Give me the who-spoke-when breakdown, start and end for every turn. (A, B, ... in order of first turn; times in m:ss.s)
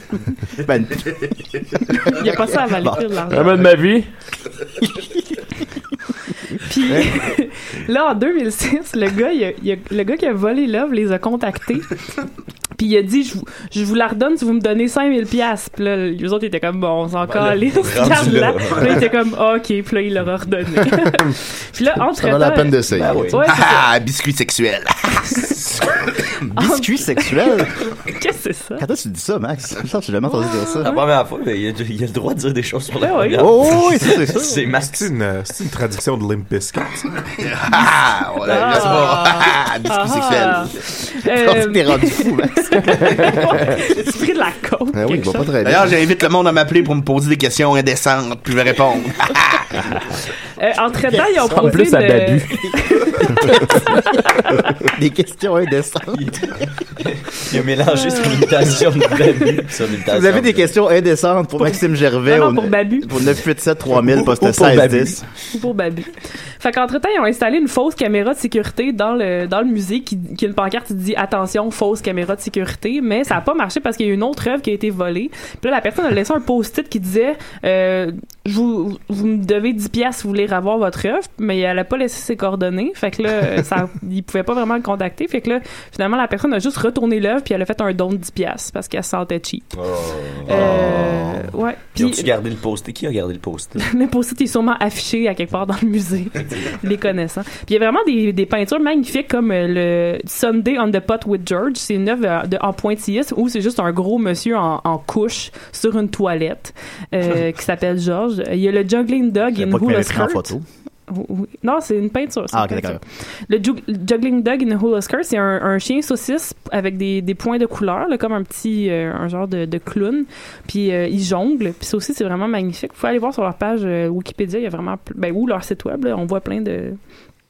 0:00.6-0:03.5 A
0:02.0-0:03.6 B
0:03.3-0:04.1 C
0:06.6-0:12.0 B
0:12.8-0:23.8 B
0:17.2-0:19.1 D
0:22.1-0:23.2 E
0:22.9-0:23.5 D
0:23.4-0:25.6 F
0:26.5-0:27.7 A
0:26.6-0:28.8 B
0:28.8-0:31.0 A
0:30.2-0:31.0 B
0:30.8-0:35.1 D
0:33.0-0:33.5 B
0:33.4-0:34.6 A
0:34.8-0:37.2 G
0:37.4-0:40.7 F
0:38.4-0:45.5 B
0:41.3-0:43.4 A
0:44.9-0:46.0 E
0:45.6-0:49.7 F
0:50.6-0:54.7 B
0:51.5-0:52.7 C
0:54.8-0:56.6 A
0:56.1-1:00.7 D
0:57.9-0:58.8 B
1:00.1-1:05.2 A
1:01.6-1:03.1 B
1:04.1-1:05.2 D
1:05.5-1:29.7 B
1:29.8-1:31.3 D
1:30.4-1:32.3 B
1:30.6-1:31.1 A
1:31.9-1:33.8 D
1:33.8-1:50.5 B
1:49.5-1:50.6 A
1:51.1-2:07.0 B
1:52.5-1:53.0 A